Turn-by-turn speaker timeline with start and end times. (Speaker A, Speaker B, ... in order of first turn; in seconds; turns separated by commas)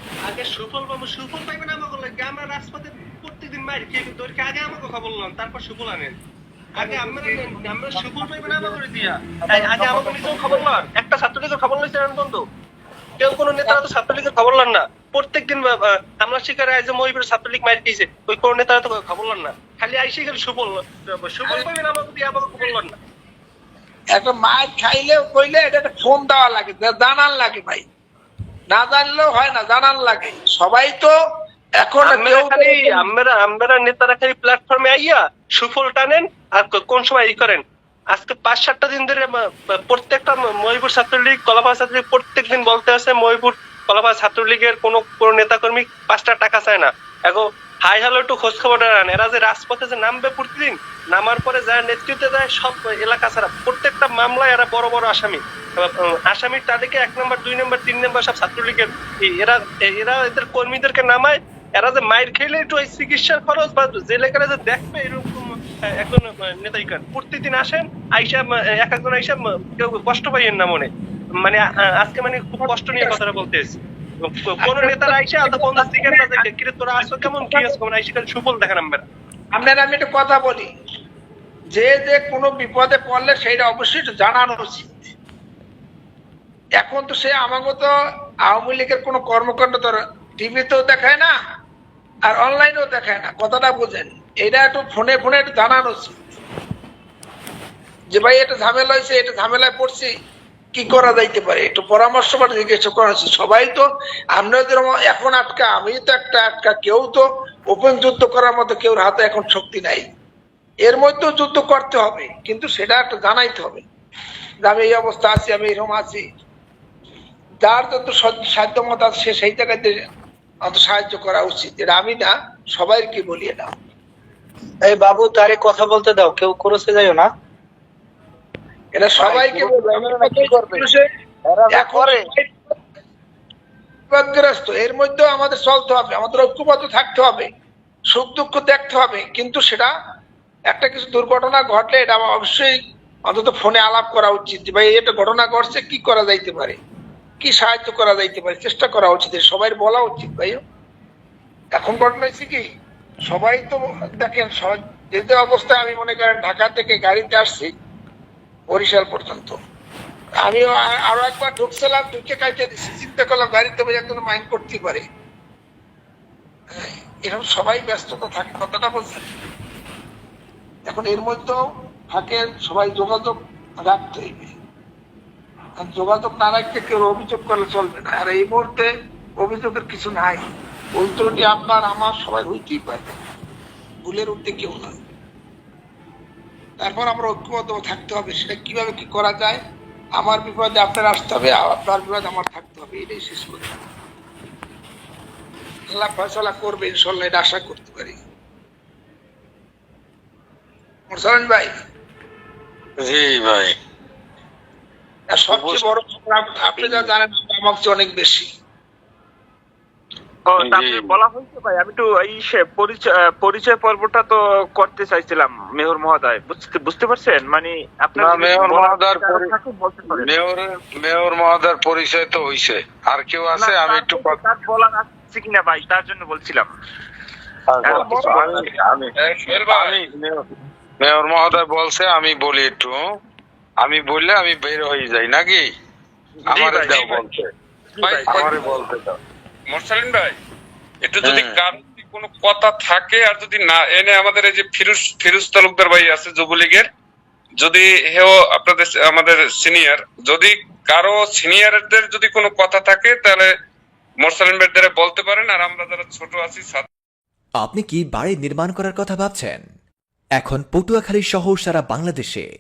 Speaker A: 0.3-6.1, Speaker A: 6.8-12.4, Speaker B: 6.8-10.8, Speaker A: 13.2-23.0, Speaker B: 24.1-27.8, Speaker B: 28.7-31.1, Speaker B: 31.8-33.0, Speaker A: 32.0-79.0, Speaker B: 72.6-73.2, Speaker B: 74.6-76.4, Speaker B: 77.0-77.7, Speaker B: 79.5-80.7, Speaker B: 81.7-85.1, Speaker B: 86.8-87.9, Speaker B: 88.5-91.3, Speaker B: 92.2-96.1, Speaker B: 98.1-100.1, Speaker B: 100.7-110.0, Speaker B: 110.8-113.8, Speaker B: 114.6-116.2, Speaker B: 117.6-120.0, Speaker B: 120.6-123.7, Speaker C: 124.8-127.3, Speaker B: 128.9-131.0, Speaker C: 129.1-130.9, Speaker C: 131.5-132.3, Speaker B: 131.7-132.5, Speaker B: 134.1-137.5, Speaker B: 138.1-139.9, Speaker B: 140.7-142.7, Speaker B: 143.3-146.8, Speaker B: 147.4-150.6, Speaker B: 151.7-152.6, Speaker B: 153.3-157.7, Speaker B: 158.7-159.6, Speaker B: 160.4-165.0, Speaker B: 166.7-169.2, Speaker B: 170.9-171.6, Speaker B: 172.1-174.5, Speaker B: 175.8-180.4, Speaker B: 180.9-183.2, Speaker B: 184.0-184.9, Speaker B: 186.8-189.6, Speaker B: 190.2-193.7, Speaker B: 195.9-198.2, Speaker B: 201.1-201.7, Speaker D: 203.0-203.7, Speaker B: 205.3-208.4, Speaker D: 205.5-205.9, Speaker E: 210.4-220.3, Speaker D: 210.6-211.2, Speaker D: 218.1-219.5, Speaker D: 220.1-224.4, Speaker E: 223.5-226.7, Speaker D: 227.7-233.0, Speaker E: 227.8-228.6, Speaker B: 227.9-228.5, Speaker F: 229.2-230.0, Speaker D: 233.8-235.6, Speaker E: 236.4-237.1, Speaker D: 236.4-237.5, Speaker F: 236.8-237.2, Speaker E: 237.9-238.8, Speaker F: 238.0-238.8, Speaker D: 238.2-239.2, Speaker F: 239.7-240.4, Speaker F: 241.0-246.8, Speaker D: 241.2-241.6, Speaker F: 247.6-253.5, Speaker F: 254.2-256.9, Speaker G: 257.6-259.6, Speaker G: 260.4-262.5